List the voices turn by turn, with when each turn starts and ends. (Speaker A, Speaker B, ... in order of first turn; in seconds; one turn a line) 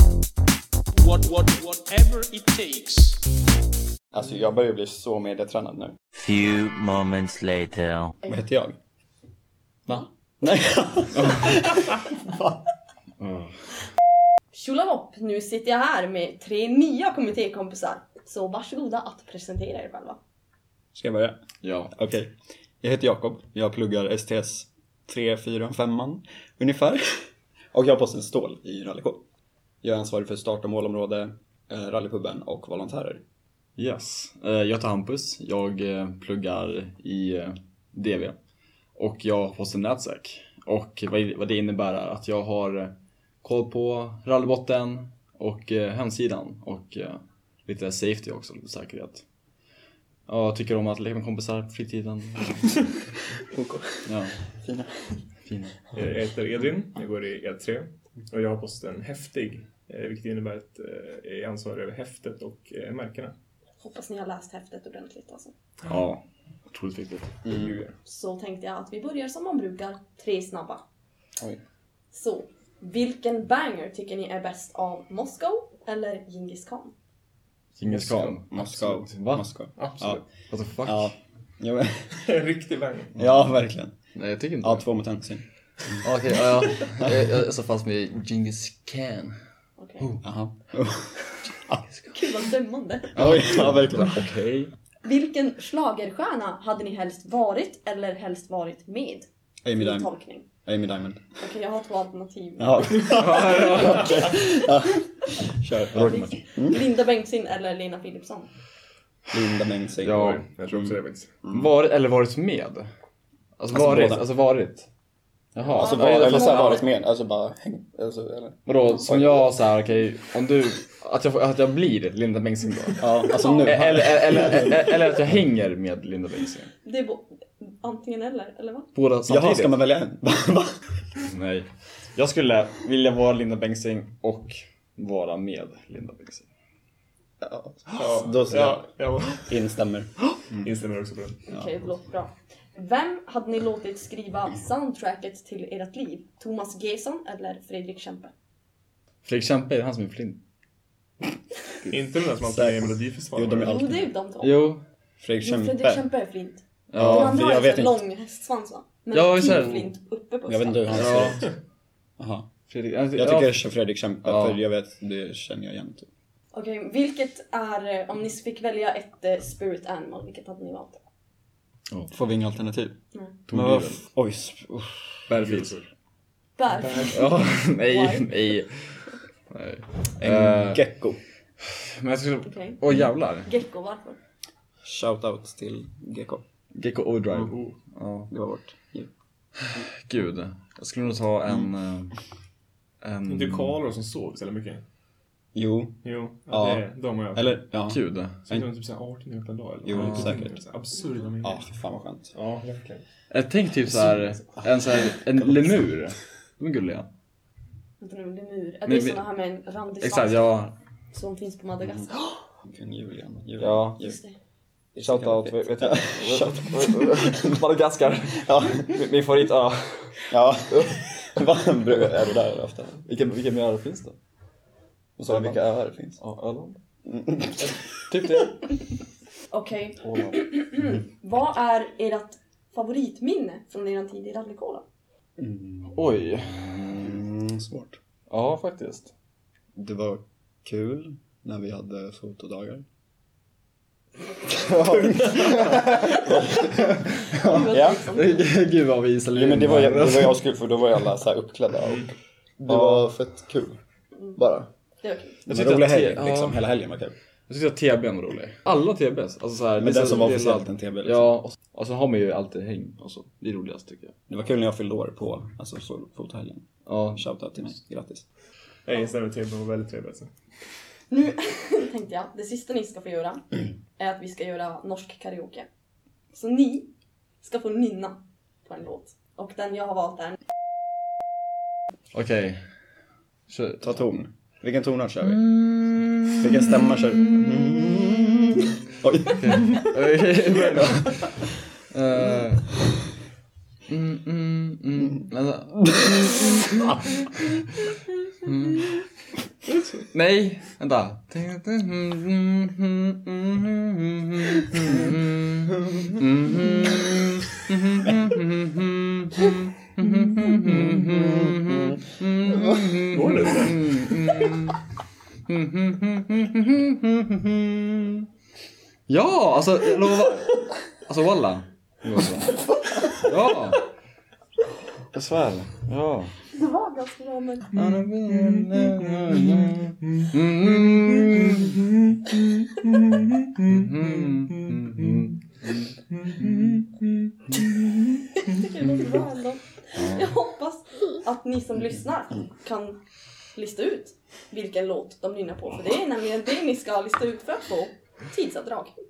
Speaker A: 0.9-3.2
Speaker B: 4.1-6.0
Speaker C: 6.2-8.1
Speaker B: 8.3-8.8
Speaker B: 9.9-12.6
Speaker D: 11.1-11.6
Speaker D: 13.2-13.5
Speaker E: 14.5-20.2
Speaker B: 20.9-21.4
Speaker D: 21.6-21.9
Speaker B: 21.9-29.2
Speaker B: 29.8-33.2
Speaker D: 33.8-38.4
Speaker D: 39.0-49.2
Speaker D: 50.3-52.8
Speaker B: 53.5-54.1
Speaker D: 54.1-54.4
Speaker B: 54.6-55.2
Speaker D: 55.5-55.8
Speaker F: 55.9-63.4
Speaker E: 63.8-65.5
Speaker D: 65.9-67.4
Speaker B: 67.5-67.9
Speaker E: 68.0-70.8
Speaker E: 72.1-76.9
Speaker D: 77.8-79.5
Speaker F: 77.8-78.4
Speaker B: 78.3-80.2
Speaker F: 79.8-80.2
Speaker D: 80.5-81.1
Speaker B: 80.8-82.3
Speaker F: 82.2-83.2
Speaker B: 83.2-84.0
Speaker D: 84.2-84.8
Speaker B: 84.6-85.5
Speaker D: 86.0-89.3
Speaker E: 89.8-90.1
Speaker B: 90.2-91.8
Speaker E: 92.1-93.2
Speaker B: 93.1-94.2
Speaker D: 93.1-94.7
Speaker E: 95.0-100.5
Speaker B: 99.6-100.1
Speaker B: 100.7-101.3
Speaker E: 101.4-103.8
Speaker B: 102.6-106.8
Speaker D: 103.1-104.3
Speaker D: 105.9-106.4
Speaker E: 106.0-108.5
Speaker B: 109.3-110.3
Speaker D: 110.0-112.9
Speaker F: 110.1-111.3
Speaker B: 111.4-111.7
Speaker D: 113.6-114.9
Speaker B: 113.7-114.3
Speaker D: 115.5-116.8
Speaker E: 115.7-116.9
Speaker B: 115.7-119.5
Speaker D: 118.7-126.7
Speaker B: 123.0-124.9
Speaker E: 123.4-123.8
Speaker E: 126.8-128.9
Speaker D: 128.9-129.8
Speaker B: 129.3-130.8
Speaker D: 131.3-136.5
Speaker B: 137.4-138.9
Speaker F: 137.9-139.6
Speaker B: 139.4-140.1
Speaker F: 140.5-141.4
Speaker E: 141.5-148.3
Speaker B: 141.5-141.9
Speaker D: 149.2-150.4
Speaker F: 151.9-153.9
Speaker B: 151.9-154.1
Speaker E: 153.6-154.7
Speaker D: 154.4-154.8
Speaker B: 155.2-156.1
Speaker E: 155.4-161.1
Speaker D: 156.9-157.5
Speaker B: 157.0-158.0
Speaker D: 159.1-159.9
Speaker B: 160.5-161.5
Speaker D: 160.9-161.4
Speaker B: 162.2-162.5
Speaker D: 162.7-163.7
Speaker B: 163.2-166.1
Speaker D: 164.2-164.6
Speaker E: 166.5-171.0
Speaker B: 172.1-173.0
Speaker D: 173.5-174.0
Speaker B: 173.5-175.2
Speaker D: 175.3-175.8
Speaker F: 175.3-175.9
Speaker E: 176.6-178.4
Speaker F: 177.0-177.2
Speaker D: 177.1-178.8
Speaker D: 179.5-180.9
Speaker B: 180.2-181.2
Speaker D: 181.7-183.5
Speaker E: 182.5-182.8
Speaker E: 183.4-184.2
Speaker B: 184.8-186.4
Speaker D: 186.7-188.3
Speaker F: 187.3-187.8
Speaker B: 188.3-189.1
Speaker D: 189.8-192.2
Speaker D: 193.0-193.8
Speaker F: 193.3-194.8
Speaker B: 195.6-198.0
Speaker F: 196.0-197.6
Speaker D: 197.9-198.4
Speaker F: 198.5-201.6
Speaker B: 199.8-200.6
Speaker D: 199.9-200.4
Speaker B: 201.4-202.3
Speaker F: 202.4-203.0
Speaker D: 203.3-207.1
Speaker E: 208.0-210.6
Speaker D: 208.9-209.2
Speaker D: 210.0-210.7
Speaker E: 211.1-212.3
Speaker B: 211.8-214.2
Speaker D: 213.6-214.1
Speaker E: 214.0-214.4
Speaker B: 214.9-217.5
Speaker D: 215.0-221.2
Speaker B: 218.4-218.9
Speaker B: 220.3-223.0
Speaker D: 223.1-224.2
Speaker B: 225.2-226.2
Speaker D: 225.3-226.8
Speaker B: 227.1-227.8
Speaker D: 228.0-228.8
Speaker E: 229.5-234.8
Speaker D: 230.0-230.4
Speaker B: 235.4-236.2
Speaker D: 235.9-237.2
Speaker B: 236.9-238.0
Speaker D: 238.3-239.1
Speaker B: 239.8-242.8
Speaker B: 244.5-246.6
Speaker D: 244.5-250.4
Speaker E: 247.3-248.5
Speaker B: 247.6-248.1
Speaker B: 249.3-253.8
Speaker D: 252.7-253.1
Speaker B: 254.4-254.7
Speaker E: 255.0-255.4
Speaker B: 255.5-257.1
Speaker D: 255.5-256.7
Speaker D: 257.5-264.1
Speaker B: 259.8-261.4
Speaker B: 264.3-268.2
Speaker D: 266.9-267.3
Speaker F: 268.9-270.3
Speaker E: 271.1-275.7
Speaker E: 276.3-276.9
Speaker E: 277.4-280.4
Speaker D: 282.1-282.6
Speaker D: 283.5-284.0
Speaker B: 283.8-285.5
Speaker D: 285.2-287.9
Speaker B: 286.4-289.8
Speaker D: 289.4-292.7
Speaker D: 293.9-297.6
Speaker D: 298.4-299.1
Speaker D: 300.1-314.8
Speaker F: 313.1-314.0
Speaker D: 315.5-318.3
Speaker D: 319.1-322.6
Speaker D: 323.1-323.9
Speaker D: 325.1-326.3
Speaker E: 326.5-327.8
Speaker D: 327.7-331.9
Speaker D: 333.6-336.7
Speaker E: 338.3-343.0
Speaker D: 340.0-340.3
Speaker E: 343.6-349.0